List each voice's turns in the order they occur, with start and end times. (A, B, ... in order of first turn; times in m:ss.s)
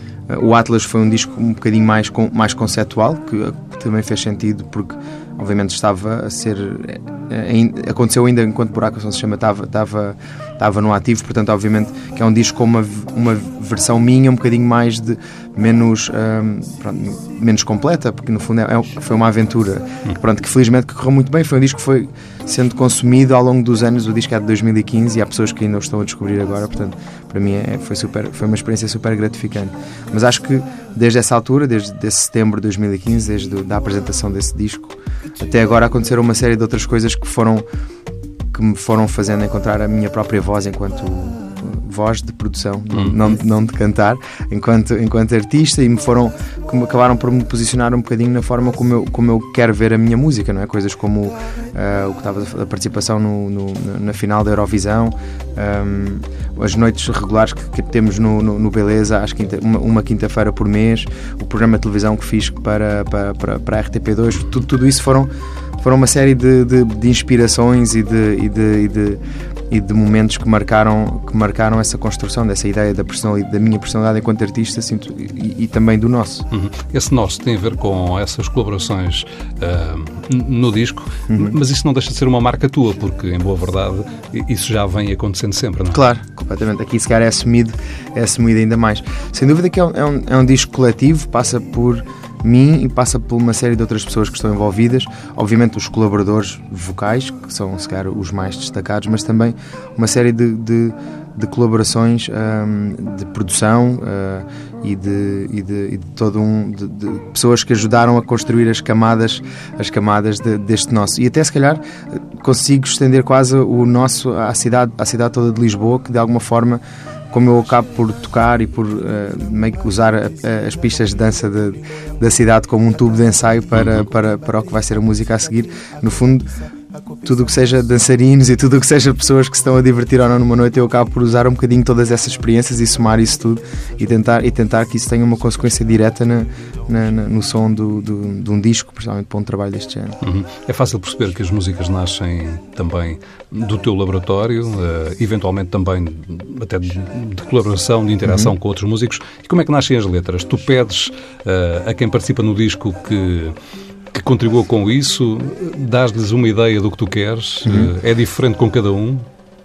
0:00.3-0:37.6 A
0:38.5-1:16.5 A
0:42.9-0:43.3 B
1:16.5-1:26.0 B
1:21.3-1:21.6 A
1:25.9-2:06.5 A
2:03.7-2:04.1 B
2:07.2-2:20.2 A
2:20.2-2:33.6 B
2:28.2-2:28.5 A
2:34.1-2:39.3 B
2:37.6-2:37.9 A